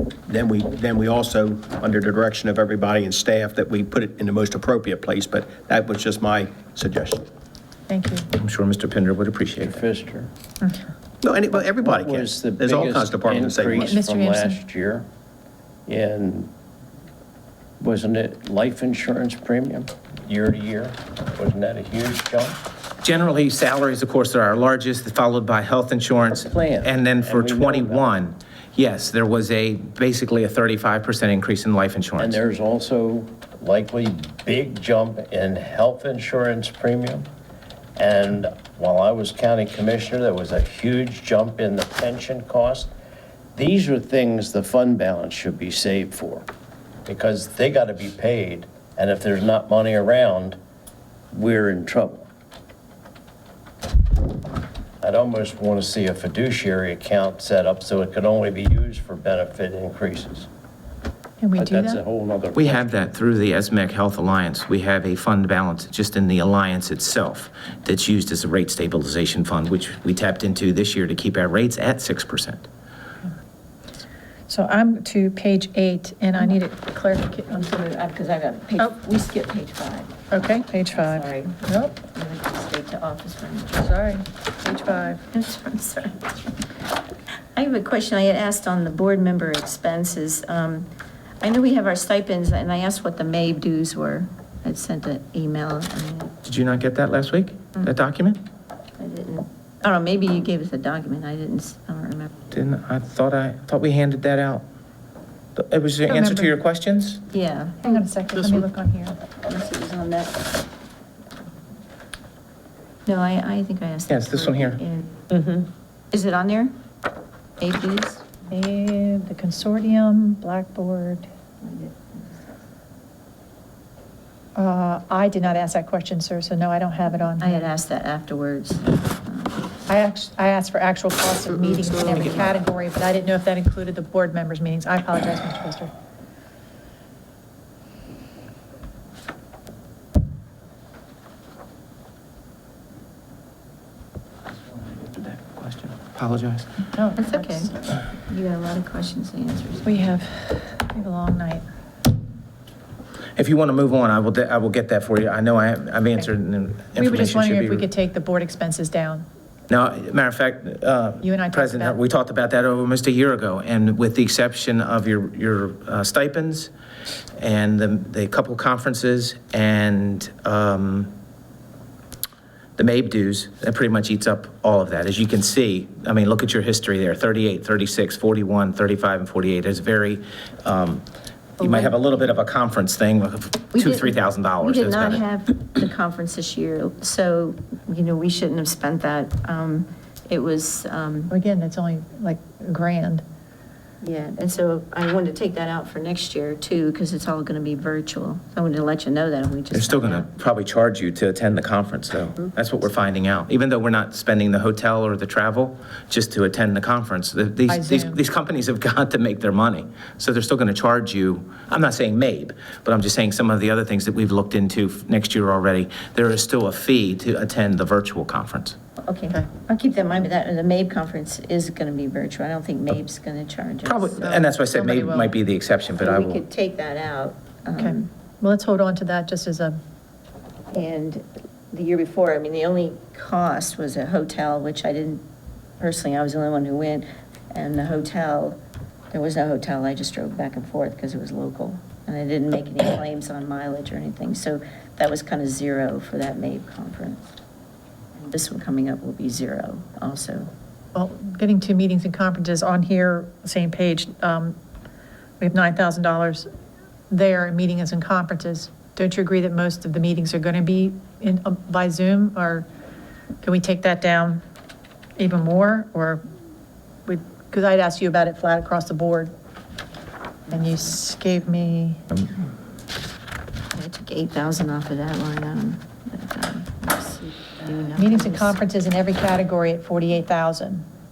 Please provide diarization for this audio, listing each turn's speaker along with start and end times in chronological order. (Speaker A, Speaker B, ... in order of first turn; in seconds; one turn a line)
Speaker A: 0.3-7.2
Speaker B: 7.9-8.3
Speaker C: 8.3-9.8
Speaker D: 9.6-10.3
Speaker A: 11.2-14.0
Speaker D: 11.6-15.1
Speaker B: 13.8-14.6
Speaker D: 15.9-16.5
Speaker D: 17.8-22.6
Speaker C: 23.0-32.4
Speaker D: 26.4-28.1
Speaker D: 32.2-37.3
Speaker D: 38.0-42.9
Speaker D: 43.5-46.5
Speaker D: 47.0-50.6
Speaker D: 51.3-52.2
Speaker D: 55.0-60.5
Speaker B: 61.4-62.0
Speaker D: 61.6-62.9
Speaker C: 62.5-72.7
Speaker B: 74.5-77.6
Speaker E: 77.5-84.0
Speaker B: 80.3-81.9
Speaker B: 83.8-85.2
Speaker E: 84.6-86.2
Speaker E: 87.5-90.9
Speaker E: 91.4-96.3
Speaker C: 96.4-98.4
Speaker E: 99.0-102.3
Speaker C: 102.5-104.6
Speaker C: 105.5-107.2
Speaker B: 106.0-106.5
Speaker E: 107.3-108.0
Speaker B: 107.8-109.1
Speaker E: 109.4-110.5
Speaker E: 113.0-115.1
Speaker C: 114.1-114.8
Speaker E: 116.1-116.7
Speaker E: 117.6-118.2
Speaker B: 118.5-121.3
Speaker E: 121.6-122.6
Speaker B: 124.5-127.7
Speaker E: 127.4-129.7
Speaker B: 129.9-135.9
Speaker C: 144.9-146.7
Speaker B: 146.9-147.7
Speaker E: 147.2-150.0
Speaker B: 149.8-151.6
Speaker C: 153.3-157.9
Speaker B: 156.9-159.2
Speaker C: 159.7-166.7
Speaker B: 161.2-162.0
Speaker C: 167.4-171.1
Speaker C: 172.8-181.0
Speaker C: 181.6-185.2
Speaker B: 181.6-181.9
Speaker E: 183.7-191.3
Speaker B: 191.3-193.2
Speaker E: 194.0-200.3
Speaker C: 199.7-218.8
Speaker B: 207.7-208.2
Speaker E: 219.0-224.3
Speaker C: 223.8-226.4
Speaker B: 224.2-225.3
Speaker E: 226.0-228.1
Speaker B: 227.8-229.8
Speaker E: 230.7-235.2
Speaker E: 235.8-238.6
Speaker E: 239.1-247.2
Speaker E: 248.2-250.5
Speaker B: 250.9-254.6
Speaker B: 255.4-256.5
Speaker B: 257.1-262.7
Speaker B: 263.4-264.4
Speaker B: 265.2-266.2
Speaker B: 267.1-269.3
Speaker E: 270.5-270.9
Speaker B: 270.5-272.0
Speaker E: 273.7-278.6
Speaker B: 278.0-280.8